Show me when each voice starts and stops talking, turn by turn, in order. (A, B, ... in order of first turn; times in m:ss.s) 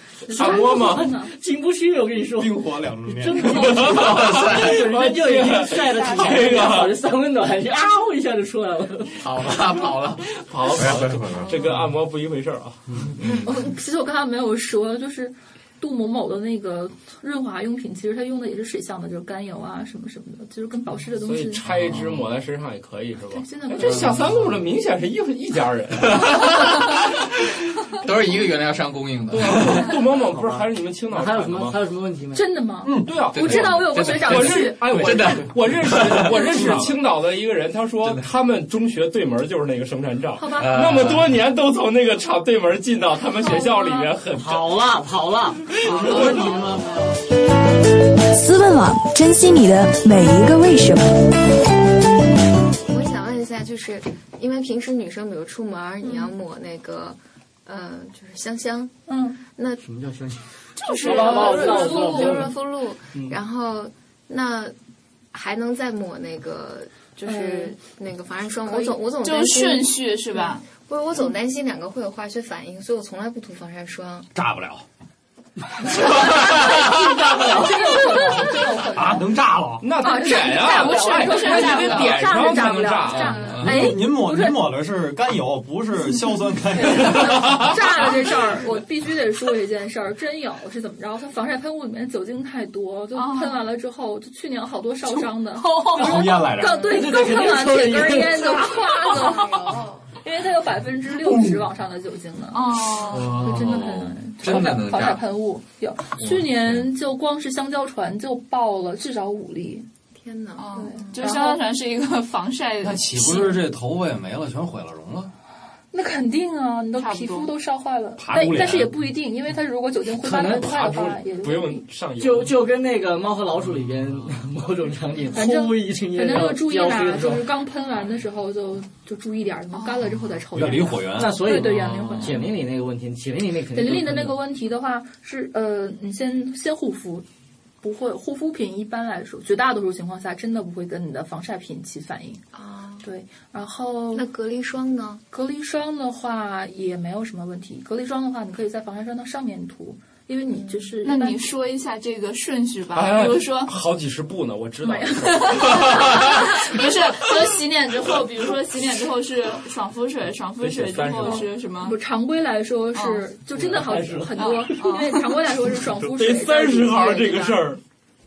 0:00.2-0:01.3 A
0:00.3-0:01.1 B
0:00.3-0:09.3 C
0:02.4-0:03.8 D
0:03.6-0:04.8 E
0:03.6-0:07.0 B
0:05.9-0:06.8 A
0:09.2-0:11.9 E
0:10.5-0:13.1 B
0:10.8-0:11.5 D
0:13.2-0:13.5 E
0:13.4-0:21.6 A
0:21.2-0:26.5 B
0:21.8-0:22.1 E
0:23.3-0:24.3 A
0:26.1-0:27.2 E
0:28.0-0:29.8 E
0:29.3-0:31.8 B
0:29.6-0:32.4 C
0:32.3-0:34.8 A
0:32.9-0:33.1 D
0:33.0-0:44.7 B
0:33.3-0:36.9 E
0:38.0-0:38.3 E
0:40.4-0:41.1 A
0:40.6-0:41.3 E
0:43.4-0:44.1 A
0:44.4-0:47.2 C
0:45.8-0:46.6 B
0:46.0-0:46.9 F
0:46.1-0:46.5 E
0:48.3-0:51.1 G
0:52.9-0:59.8 H
0:59.1-0:59.4 A
0:59.8-1:02.6 C
1:00.8-1:02.5 F
1:01.1-1:02.4 A
1:01.2-1:04.8 H
1:05.3-1:14.3 H
1:07.2-1:07.8 A
1:08.7-1:09.0 A
1:09.2-1:10.6 F
1:14.3-1:14.8 D
1:16.0-1:19.4 A
1:16.9-1:17.6 C
1:18.0-1:18.5 F
1:18.9-1:19.9 D
1:19.8-1:23.7 B
1:20.0-1:24.6 A
1:20.2-1:22.4 F
1:23.4-1:28.3 D
1:26.8-1:49.9 A
1:33.1-1:33.6 F
1:35.1-1:36.6 F
1:35.9-1:36.9 D
1:36.8-1:38.6 C
1:38.4-1:40.1 H
1:38.6-1:39.8 F
1:41.3-1:41.6 D
1:42.5-1:43.5 F
1:43.0-1:45.2 E
1:46.2-1:46.8 E
1:50.2-1:51.3 H
1:50.6-1:53.7 F
1:50.8-1:51.6 A
1:52.8-1:55.3 D
1:55.9-2:01.8 A
1:56.9-1:57.5 F
1:58.2-1:59.0 D
2:00.2-2:01.0 C
2:00.4-2:02.6 B
2:02.2-2:07.5 C
2:05.3-2:12.5 A
2:09.7-2:10.1 F
2:10.5-2:11.6 D
2:11.1-2:14.4 C
2:11.7-2:12.4 E
2:13.7-2:17.3 A
2:17.8-2:22.4 A
2:22.5-2:23.1 H
2:23.0-2:24.3 A
2:24.1-2:25.2 H
2:25.3-2:31.4 A
2:30.5-2:30.9 H
2:31.0-2:33.7 F
2:32.9-2:36.3 B
2:34.8-2:35.8 A
2:35.2-2:42.0 F
2:40.6-2:41.5 B
2:41.2-2:47.7 A
2:42.9-2:43.3 F
2:43.6-2:44.7 C
2:44.4-2:45.4 F
2:46.0-2:47.8 B